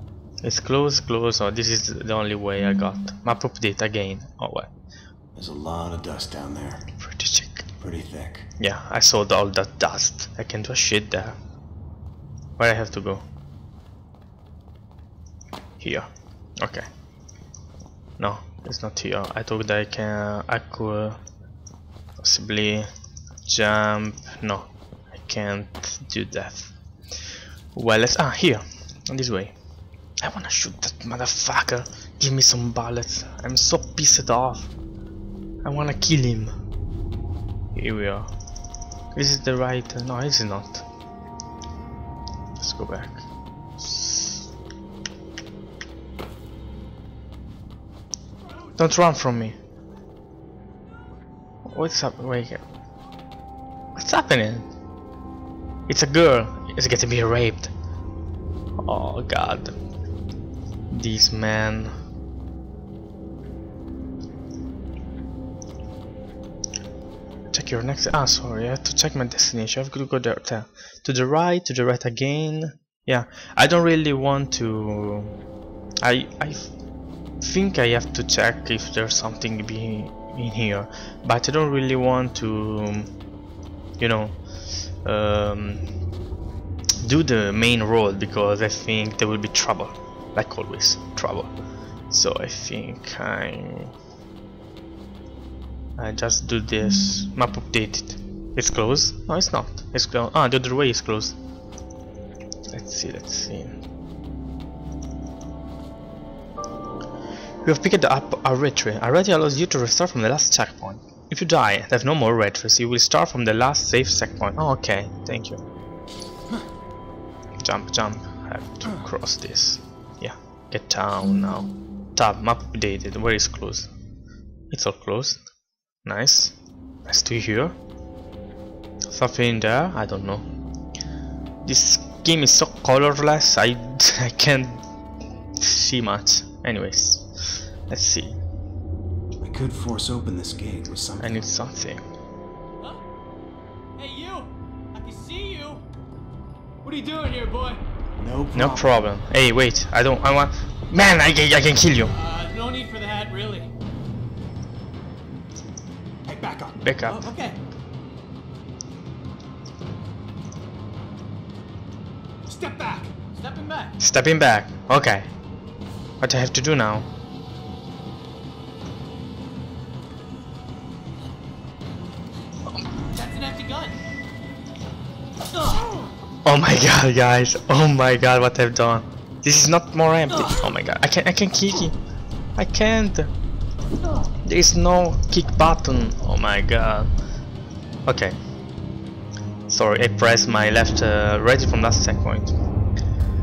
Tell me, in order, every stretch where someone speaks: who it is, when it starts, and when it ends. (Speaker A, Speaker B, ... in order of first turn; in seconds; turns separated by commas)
Speaker A: 0.4-4.7, Speaker B: 5.4-6.9, Speaker A: 7.0-7.7, Speaker B: 7.8-8.5, Speaker A: 8.6-11.4, Speaker A: 12.6-13.2, Speaker A: 15.8-16.1, Speaker A: 16.6-16.9, Speaker A: 18.2-21.2, Speaker A: 22.2-22.9, Speaker A: 23.5-26.7, Speaker A: 27.7-29.6, Speaker A: 30.2-34.7, Speaker A: 35.6-36.5, Speaker A: 37.8-38.3, Speaker A: 39.1-40.9, Speaker A: 42.6-43.3, Speaker A: 43.8-44.5, Speaker A: 48.8-49.6, Speaker A: 51.7-52.6, Speaker A: 54.0-54.7, Speaker A: 55.9-57.7, Speaker A: 58.8-59.8, Speaker A: 60.9-61.9, Speaker A: 67.5-75.3, Speaker A: 76.0-76.7, Speaker A: 77.4-83.1, Speaker A: 84.0-84.4, Speaker A: 85.0-85.8, Speaker A: 87.0-91.5, Speaker A: 92.1-93.9, Speaker A: 96.0-101.4, Speaker A: 102.7-103.8, Speaker A: 107.6-115.6, Speaker A: 117.6-123.9, Speaker A: 124.7-125.4, Speaker A: 126.0-127.8, Speaker A: 129.1-130.5, Speaker A: 131.6-134.8, Speaker A: 135.6-138.4, Speaker B: 139.4-141.5, Speaker A: 141.2-142.0, Speaker C: 144.0-145.8, Speaker C: 146.8-147.8, Speaker B: 148.2-148.9, Speaker A: 148.5-152.1, Speaker C: 152.1-153.7, Speaker C: 156.3-157.6, Speaker A: 156.8-157.2, Speaker C: 162.5-163.9, Speaker A: 164.0-165.3, Speaker A: 166.2-167.1, Speaker C: 173.1-174.0, Speaker C: 175.5-176.1, Speaker A: 176.4-182.0, Speaker C: 180.3-180.6, Speaker A: 182.6-183.3, Speaker A: 184.4-187.1, Speaker A: 188.1-188.4, Speaker A: 189.7-192.5